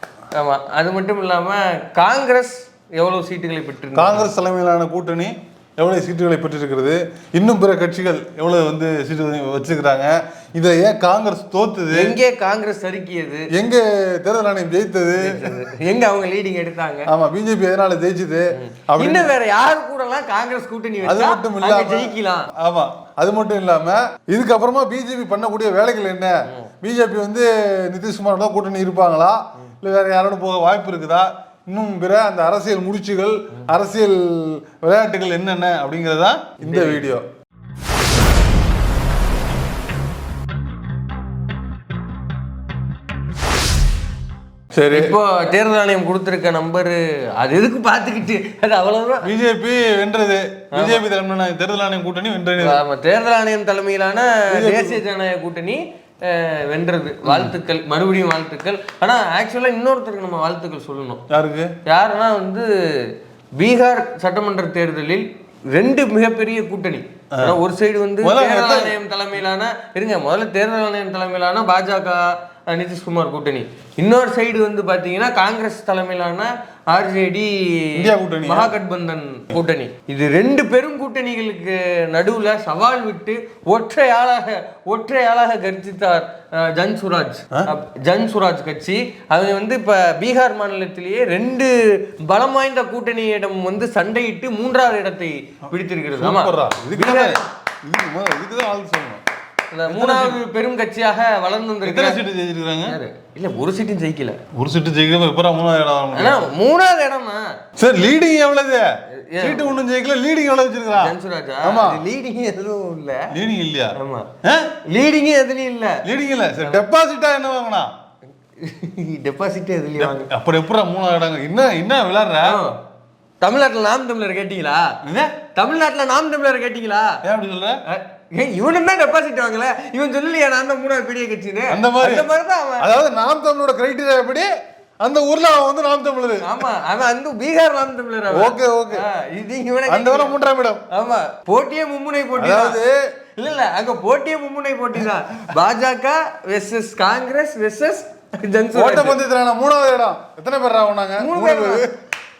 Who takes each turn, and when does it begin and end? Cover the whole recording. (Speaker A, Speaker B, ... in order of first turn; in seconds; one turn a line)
Speaker A: 0.3-4.3
Speaker B: 3.9-12.2
Speaker A: 11.9-13.5
Speaker B: 13.5-15.5
Speaker A: 15.2-17.1
Speaker B: 17.1-19.3
Speaker A: 18.5-22.5
Speaker B: 21.0-37.2
Speaker A: 36.6-37.0
Speaker B: 44.7-45.2
Speaker A: 44.9-49.3
Speaker B: 49.2-52.8
Speaker A: 50.7-51.0
Speaker A: 52.6-61.2
Speaker B: 54.5-55.0
Speaker B: 57.2-57.5
Speaker B: 61.3-61.7
Speaker A: 61.9-97.4
Speaker B: 68.2-69.0
Speaker B: 78.0-78.7
Speaker B: 96.2-99.2
Speaker A: 99.7-102.2
Speaker B: 99.9-100.4
Speaker B: 101.8-103.0
Speaker A: 102.8-104.4
Speaker B: 104.5-106.4
Speaker A: 106.1-107.5
Speaker B: 107.8-112.0
Speaker A: 109.1-109.8
Speaker A: 111.0-113.3
Speaker B: 113.3-114.8
Speaker A: 113.9-114.3
Speaker A: 114.8-116.0
Speaker B: 116.0-117.9
Speaker A: 118.6-120.3
Speaker B: 120.0-122.6
Speaker A: 122.4-122.8
Speaker A: 123.4-125.0
Speaker B: 125.0-125.3
Speaker A: 125.5-127.2
Speaker B: 127.2-127.8
Speaker A: 127.8-132.9
Speaker B: 131.7-132.3
Speaker B: 132.8-134.5
Speaker B: 135.0-136.6
Speaker A: 136.4-140.3
Speaker B: 138.3-139.0
Speaker B: 139.9-140.8
Speaker A: 140.9-142.8
Speaker B: 142.4-143.0
Speaker A: 143.4-149.2
Speaker B: 148.7-151.9
Speaker A: 151.2-151.9